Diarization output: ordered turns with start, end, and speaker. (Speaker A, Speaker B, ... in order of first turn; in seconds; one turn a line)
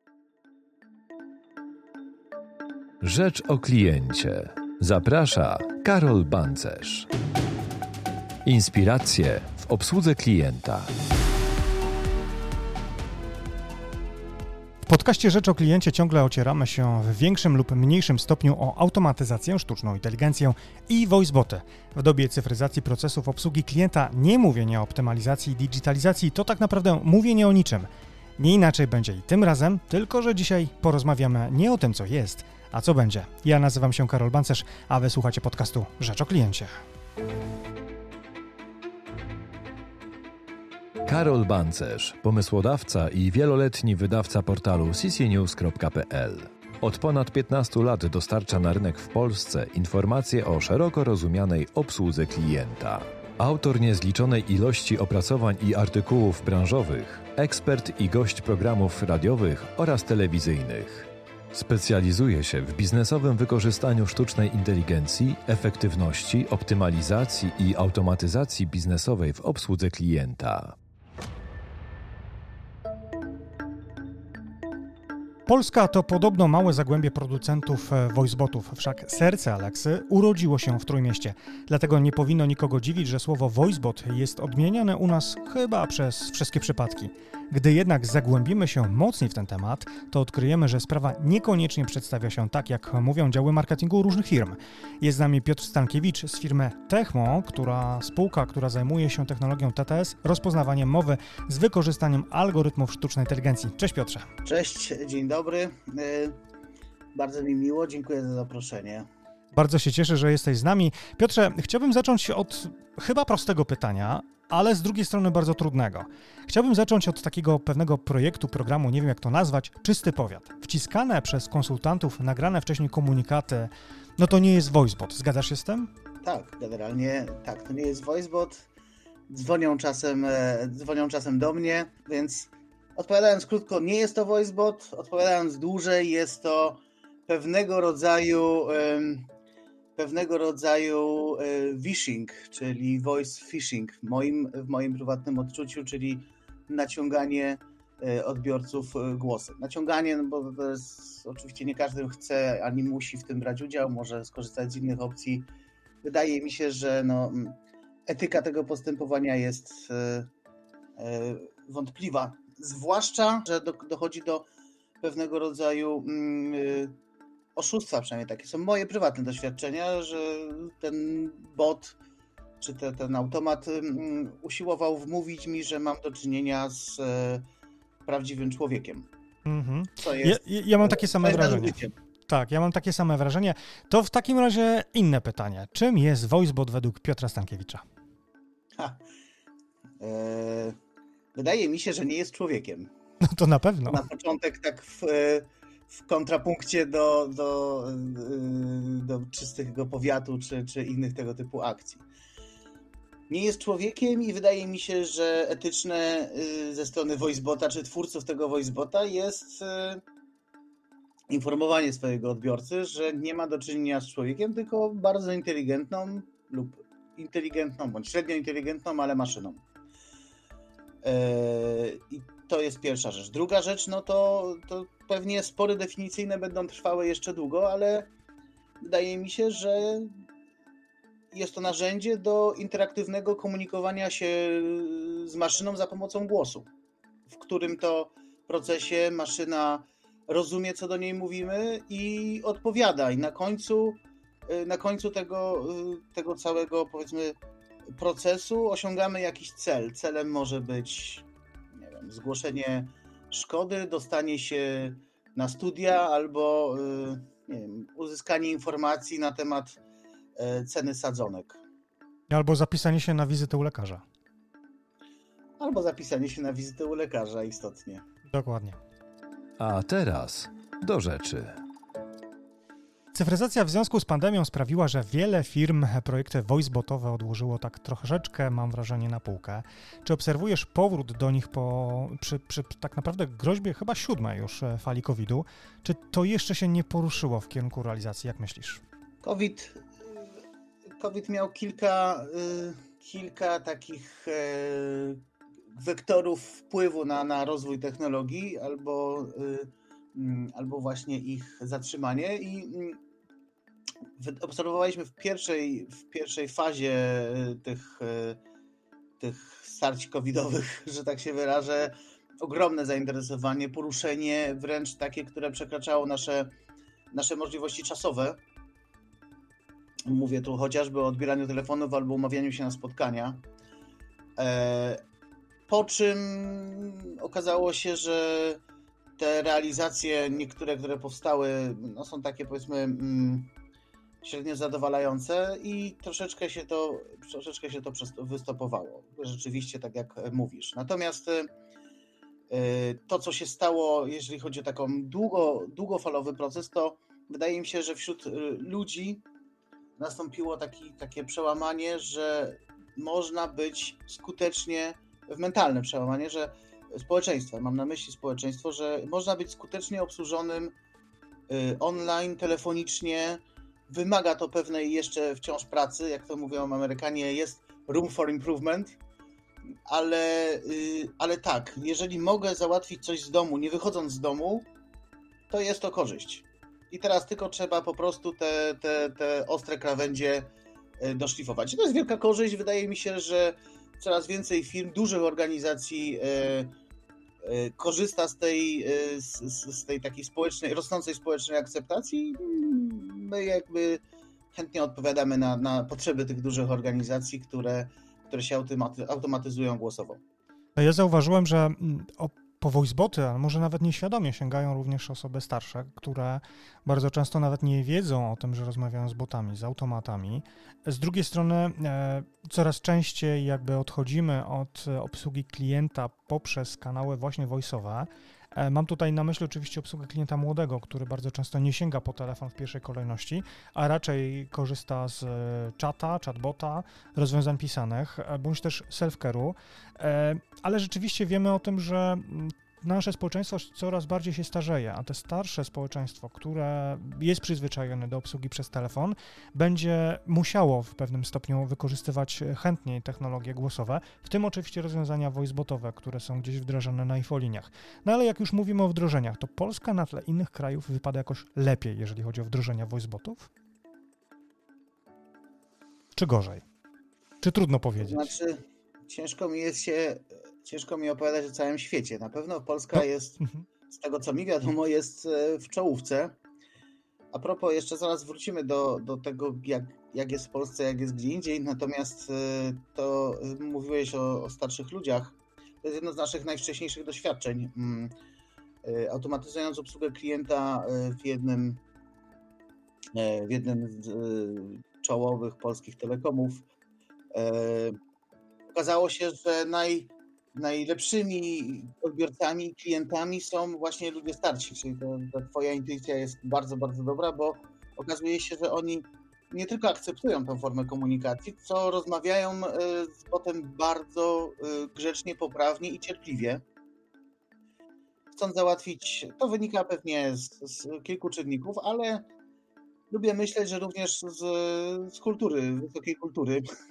Speaker A: 3.0-7.1
Speaker A: 8.4-10.9
Speaker B: 14.8-36.7
Speaker A: 41.0-70.8
Speaker B: 75.5-104.3
Speaker C: 104.4-106.4
Speaker C: 107.1-109.1
Speaker B: 109.5-125.9
Speaker C: 126.2-128.7
Speaker C: 129.3-139.3
Speaker C: 139.9-155.5
Speaker C: 156.0-160.3
Speaker C: 160.9-164.5
Speaker C: 165.0-166.9
Speaker C: 167.5-172.0
Speaker C: 172.6-177.4
Speaker C: 178.0-179.1
Speaker B: 179.4-187.8
Speaker C: 180.0-181.9
Speaker C: 188.8-189.0
Speaker C: 190.0-190.8
Speaker C: 191.3-192.9
Speaker B: 193.2-194.0
Speaker C: 193.9-202.0
Speaker C: 203.3-210.0
Speaker C: 211.3-219.6
Speaker C: 221.0-228.1
Speaker C: 228.8-230.1
Speaker C: 231.3-236.7
Speaker C: 237.3-247.4
Speaker C: 247.9-259.8
Speaker C: 260.4-261.6
Speaker B: 262.3-264.0
Speaker C: 265.6-268.0
Speaker B: 268.3-268.8
Speaker A: 269.6-271.6
Speaker B: 273.1-288.8
Speaker C: 289.2-290.4
Speaker C: 291.0-295.2
Speaker C: 295.7-303.0
Speaker C: 304.2-308.4
Speaker C: 309.2-316.5
Speaker C: 317.1-318.4
Speaker C: 320.1-323.4
Speaker C: 324.4-325.0
Speaker C: 325.7-328.6
Speaker C: 329.2-333.5
Speaker C: 334.2-341.5
Speaker C: 342.5-349.2
Speaker C: 350.0-360.7
Speaker C: 361.5-369.0
Speaker C: 369.9-374.7
Speaker C: 375.5-386.7
Speaker C: 387.4-394.0
Speaker C: 394.5-400.2
Speaker B: 400.8-453.5
Speaker B: 456.1-456.6
Speaker B: 457.4-458.3
Speaker C: 458.0-466.4
Speaker C: 467.3-478.1
Speaker C: 478.8-481.8
Speaker C: 483.1-486.6
Speaker C: 487.3-488.0
Speaker C: 488.7-506.6
Speaker C: 508.3-512.3
Speaker C: 513.1-516.6